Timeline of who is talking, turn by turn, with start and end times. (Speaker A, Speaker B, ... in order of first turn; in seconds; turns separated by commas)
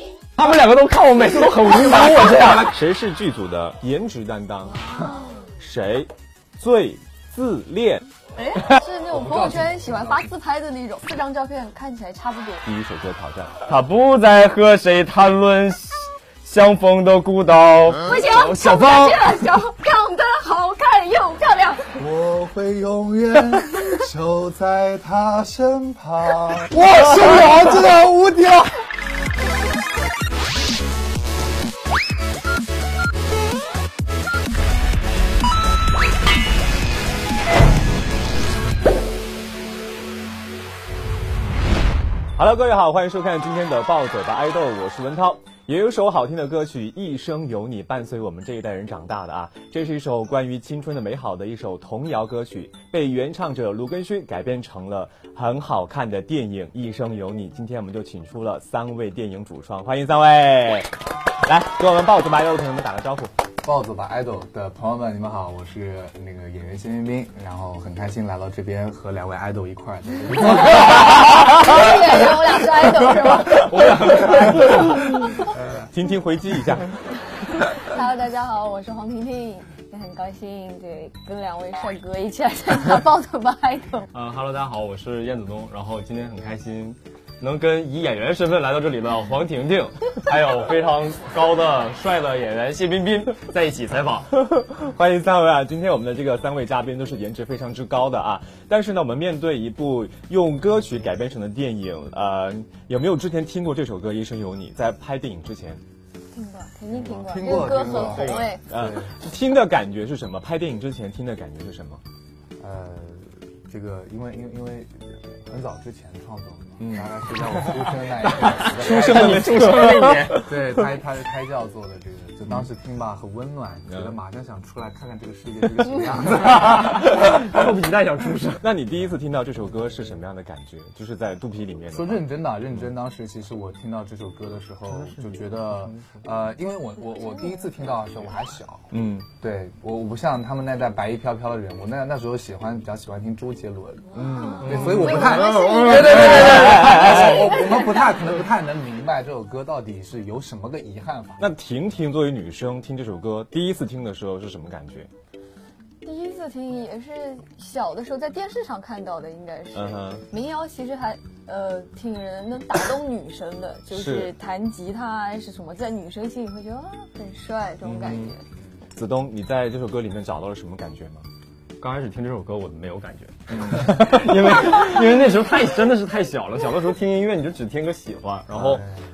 Speaker A: 0.4-2.7, Speaker B: 2.5-4.8, Speaker B: 5.6-8.0, Speaker C: 8.4-12.6, Speaker D: 9.1-10.3, Speaker B: 12.7-13.6, Speaker A: 13.7-19.3, Speaker C: 18.0-21.9, Speaker D: 22.0-28.8, Speaker B: 42.4-63.3, Speaker D: 63.6-71.1, Speaker C: 70.5-75.0, Speaker A: 73.4-75.1, Speaker D: 75.4-75.9, Speaker B: 75.9-76.9, Speaker C: 77.8-84.1, Speaker A: 84.1-94.3, Speaker B: 94.4-105.8, Speaker C: 106.3-108.6, Speaker D: 107.0-109.2, Speaker A: 107.5-108.5, Speaker B: 108.0-112.0, Speaker D: 112.6-127.2, Speaker B: 116.8-117.1, Speaker A: 118.3-120.5, Speaker B: 118.6-120.5, Speaker A: 126.3-128.6, Speaker B: 128.6-132.2, Speaker D: 131.9-151.5, Speaker A: 134.9-136.0, Speaker B: 138.9-139.3, Speaker B: 144.1-147.6, Speaker A: 144.6-147.0, Speaker C: 144.8-148.3, Speaker B: 151.4-155.1, Speaker C: 156.0-168.4, Speaker B: 159.7-160.2, Speaker B: 163.9-164.3, Speaker B: 167.8-168.3, Speaker B: 168.9-171.2, Speaker A: 171.8-178.8, Speaker B: 173.5-174.2, Speaker B: 178.5-178.8